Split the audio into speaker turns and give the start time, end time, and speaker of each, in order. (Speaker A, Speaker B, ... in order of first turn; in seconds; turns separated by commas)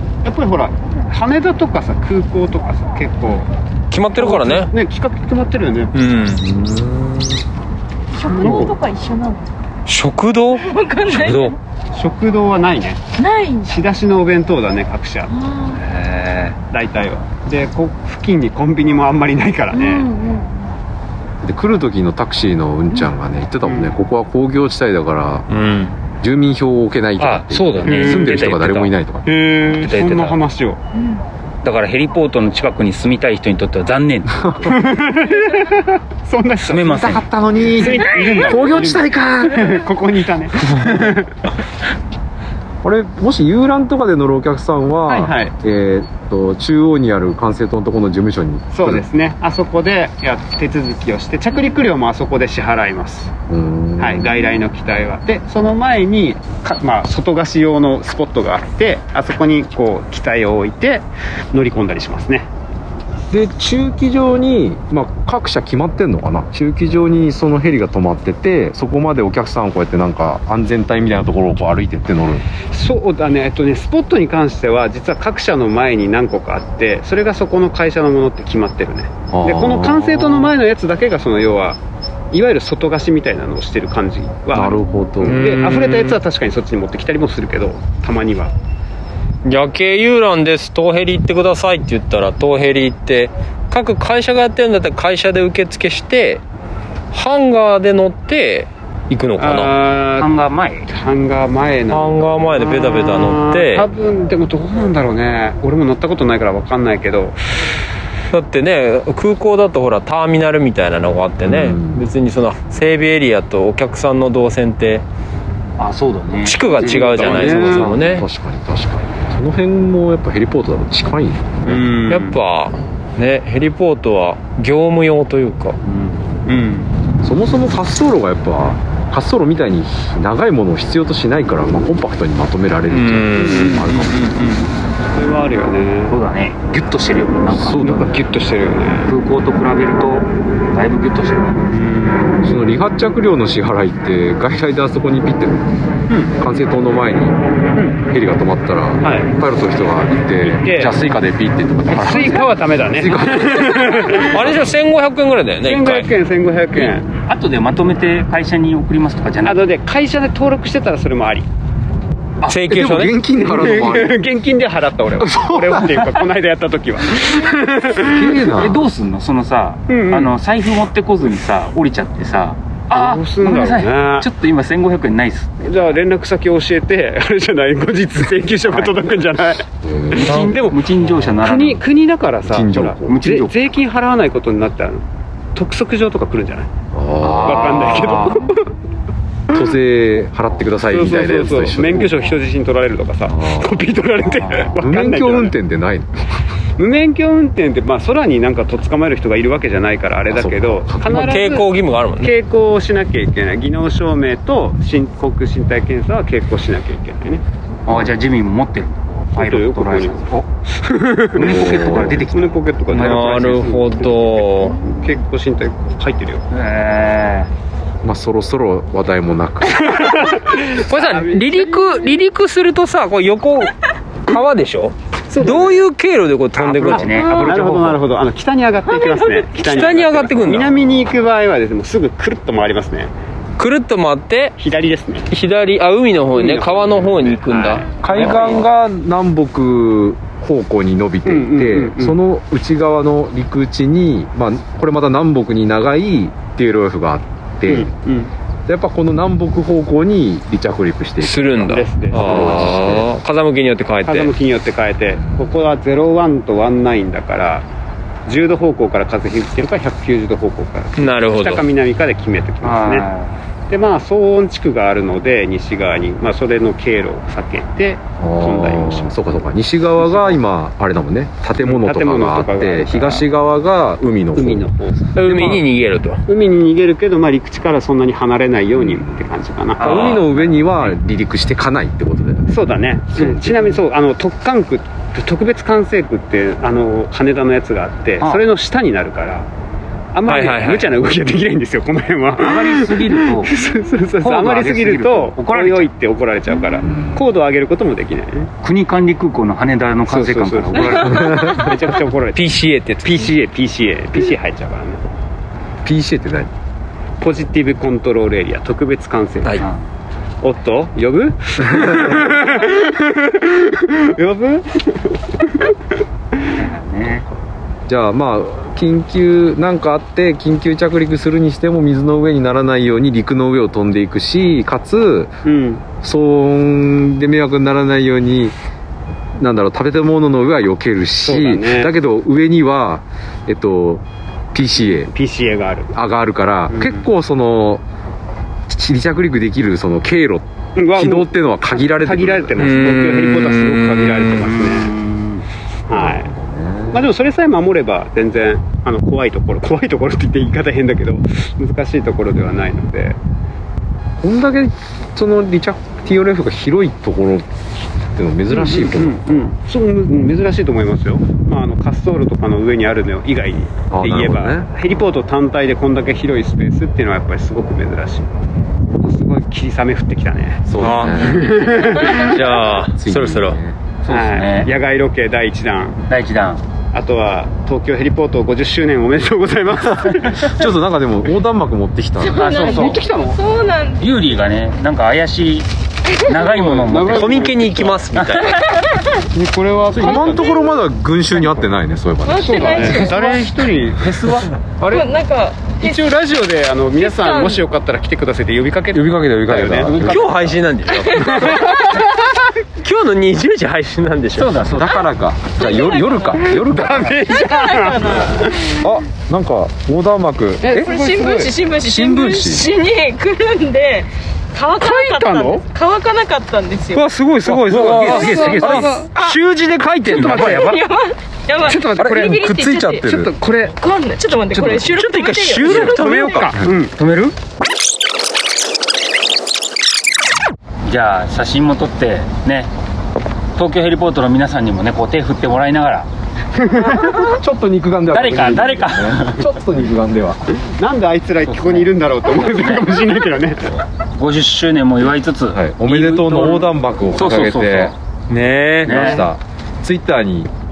Speaker A: 0.2-3.5, Speaker B: 3.9-4.7, Speaker A: 4.2-6.0, Speaker B: 5.9-6.6, Speaker C: 6.4-7.3, Speaker D: 8.2-9.5, Speaker A: 8.2-8.8, Speaker C: 8.4-8.7, Speaker B: 9.9-11.6, Speaker D: 10.6-11.6, Speaker A: 11.9-13.0, Speaker D: 13.2-13.7, Speaker A: 13.6-15.3, Speaker D: 15.4-15.8, Speaker E: 15.7-16.6, Speaker A: 16.7-20.1, Speaker D: 19.7-20.6, Speaker C: 21.4-25.5, Speaker A: 23.6-23.9, Speaker B: 25.5-25.9, Speaker C: 26.2-29.4, Speaker E: 27.2-29.0, Speaker A: 27.9-28.4, Speaker A: 29.2-30.8, Speaker E: 29.8-30.4, Speaker E: 31.6-34.9, Speaker A: 34.7-37.0, Speaker E: 36.6-38.9, Speaker C: 36.9-39.7, Speaker A: 37.8-41.4, Speaker C: 42.8-49.0, Speaker A: 45.1-45.5, Speaker A: 48.7-53.3, Speaker C: 53.5-54.4, Speaker A: 54.0-62.5, Speaker C: 63.3-72.5, Speaker A: 72.7-81.8, Speaker C: 79.3-80.5, Speaker A: 82.3-88.5, Speaker C: 84.5-85.5, Speaker B: 85.2-86.2, Speaker B: 89.4-96.4, Speaker B: 97.1-99.7, Speaker A: 99.4-100.3, Speaker E: 100.2-100.9, Speaker A: 100.9-107.4, Speaker B: 101.9-103.9, Speaker B: 108.3-115.0, Speaker C: 111.4-112.0, Speaker E: 115.8-117.6, Speaker B: 116.4-118.3, Speaker A: 116.7-118.2, Speaker C: 117.6-121.8, Speaker A: 121.7-122.4, Speaker B: 121.7-125.8, Speaker A: 126.5-126.9, Speaker C: 127.2-134.2, Speaker B: 132.9-133.9, Speaker A: 133.4-136.2, Speaker E: 136.1-138.1, Speaker C: 137.5-138.1, Speaker A: 137.8-139.1, Speaker E: 139.1-141.7, Speaker A: 141.7-142.4, Speaker C: 142.4-145.7, Speaker C: 146.4-147.4, Speaker C: 148.0-152.5, Speaker A: 149.0-149.3, Speaker A: 150.4-150.9, Speaker E: 151.9-152.6, Speaker A: 152.0-154.7, Speaker C: 153.0-153.7, Speaker B: 154.3-156.1, Speaker A: 155.6-157.1, Speaker E: 156.7-159.7, Speaker A: 159.4-161.5, Speaker B: 162.5-163.1, Speaker C: 162.6-164.2, Speaker A: 163.4-168.7, Speaker C: 165.2-165.9, Speaker C: 168.0-168.8, Speaker E: 168.4-176.0, Speaker A: 169.9-170.3, Speaker A: 172.9-174.3, Speaker A: 175.6-179.7, Speaker E: 178.6-179.2, Speaker C: 179.8-180.8, Speaker E: 180.1-181.8, Speaker B: 180.3-180.6, Speaker A: 181.4-185.0, Speaker C: 182.4-183.2, Speaker E: 183.0-183.6, Speaker A: 185.6-186.7, Speaker C: 186.9-188.3, Speaker E: 187.2-188.5, Speaker A: 187.4-188.6, Speaker B: 187.4-188.3, Speaker C: 189.5-192.2, Speaker A: 190.8-195.6, Speaker C: 193.3-193.8, Speaker C: 194.8-196.1, Speaker A: 196.8-207.4, Speaker C: 200.3-201.3, Speaker B: 201.1-202.3, Speaker E: 207.9-210.5, Speaker C: 207.9-208.1, Speaker A: 209.4-216.4, Speaker E: 211.3-213.6, Speaker C: 211.4-212.2, Speaker B: 212.9-214.8, Speaker E: 216.5-217.5, Speaker C: 218.0-220.3, Speaker A: 219.8-222.2, Speaker B: 220.7-223.7, Speaker B: 224.2-227.2, Speaker A: 225.3-225.8, Speaker E: 226.6-228.0, Speaker A: 226.9-233.1, Speaker B: 228.9-230.7, Speaker B: 233.6-234.6, Speaker A: 234.6-235.3, Speaker B: 235.3-238.6, Speaker A: 236.3-238.6, Speaker C: 238.0-247.9, Speaker A: 241.2-242.2, Speaker A: 247.7-248.3, Speaker C: 248.7-251.5, Speaker B: 251.2-254.3, Speaker A: 251.6-253.1, Speaker C: 252.1-253.1, Speaker A: 254.1-257.6, Speaker C: 255.2-255.5, Speaker A: 258.3-263.1, Speaker B: 261.0-261.7, Speaker E: 262.6-263.4, Speaker A: 263.7-269.2, Speaker C: 268.2-274.6, Speaker A: 270.0-270.4, Speaker A: 271.6-273.3, Speaker A: 274.4-275.6, Speaker B: 275.2-276.2, Speaker A: 276.3-280.2, Speaker C: 278.8-279.2, Speaker E: 279.8-281.0, Speaker C: 279.8-282.5, Speaker A: 282.5-289.5, Speaker C: 283.1-283.8, Speaker A: 290.1-298.5, Speaker B: 290.3-290.9, Speaker E: 292.4-293.6, Speaker E: 294.2-295.9, Speaker C: 296.9-297.2, Speaker E: 298.6-301.5, Speaker A: 300.1-305.0, Speaker C: 300.8-301.8, Speaker B: 302.4-303.3, Speaker C: 305.8-306.5, Speaker A: 307.2-309.6, Speaker A: 310.4-315.7, Speaker E: 316.5-317.3, Speaker C: 317.9-325.4, Speaker A: 325.4-325.9, Speaker C: 326.0-328.6, Speaker C: 329.4-335.1, Speaker A: 331.2-331.9, Speaker A: 335.1-335.9, Speaker C: 335.9-337.8, Speaker A: 336.7-337.1, Speaker C: 338.7-343.0, Speaker A: 340.8-341.3, Speaker A: 341.8-344.9, Speaker B: 342.6-344.5, Speaker E: 344.5-345.4, Speaker A: 345.9-346.3, Speaker C: 345.9-347.1, Speaker A: 346.9-353.2, Speaker C: 354.2-357.5, Speaker C: 358.1-359.4, Speaker A: 358.5-368.3, Speaker C: 363.9-364.9, Speaker A: 368.9-372.6, Speaker C: 370.7-371.6, Speaker B: 370.8-373.6, Speaker C: 372.9-373.8, Speaker E: 374.0-374.8, Speaker A: 374.1-376.0, Speaker E: 376.1-376.6, Speaker A: 376.9-380.6, Speaker C: 380.4-383.0, Speaker D: 382.2-384.1, Speaker E: 382.3-383.1, Speaker A: 382.6-383.4, Speaker E: 384.0-387.6, Speaker A: 386.4-388.2, Speaker B: 387.1-388.6, Speaker E: 388.1-388.7, Speaker D: 388.6-389.2, Speaker A: 389.3-390.7, Speaker C: 389.9-393.1, Speaker D: 390.2-390.7, Speaker D: 392.2-393.5, Speaker A: 392.4-395.2, Speaker E: 394.0-394.5, Speaker D: 394.8-396.1, Speaker A: 395.7-400.6, Speaker D: 396.9-397.6, Speaker C: 398.9-400.4, Speaker B: 400.0-401.7, Speaker D: 401.0-401.9, Speaker A: 401.1-402.2, Speaker B: 402.8-404.7, Speaker E: 404.3-405.0, Speaker C: 404.7-407.4, Speaker D: 405.5-406.5, Speaker A: 406.4-408.8, Speaker D: 407.2-408.7, Speaker C: 408.8-410.9, Speaker A: 410.6-411.6, Speaker D: 410.7-417.0, Speaker C: 411.8-412.7, Speaker A: 414.7-415.6, Speaker B: 416.9-420.8, Speaker E: 417.4-419.1, Speaker C: 417.7-419.0, Speaker D: 418.0-419.4, Speaker E: 420.1-420.8, Speaker D: 420.1-426.4, Speaker C: 421.7-423.4, Speaker A: 421.7-422.1, Speaker B: 424.5-426.6, Speaker A: 425.6-426.9, Speaker E: 426.4-427.3, Speaker E: 430.9-432.7, Speaker E: 433.6-436.1, Speaker A: 436.6-437.3, Speaker C: 437.1-440.5, Speaker E: 438.1-439.6, Speaker A: 440.6-443.7, Speaker E: 441.4-443.0, Speaker E: 444.2-448.0, Speaker C: 445.5-447.9, Speaker B: 448.3-449.2, Speaker E: 448.8-449.3, Speaker C: 448.8-450.5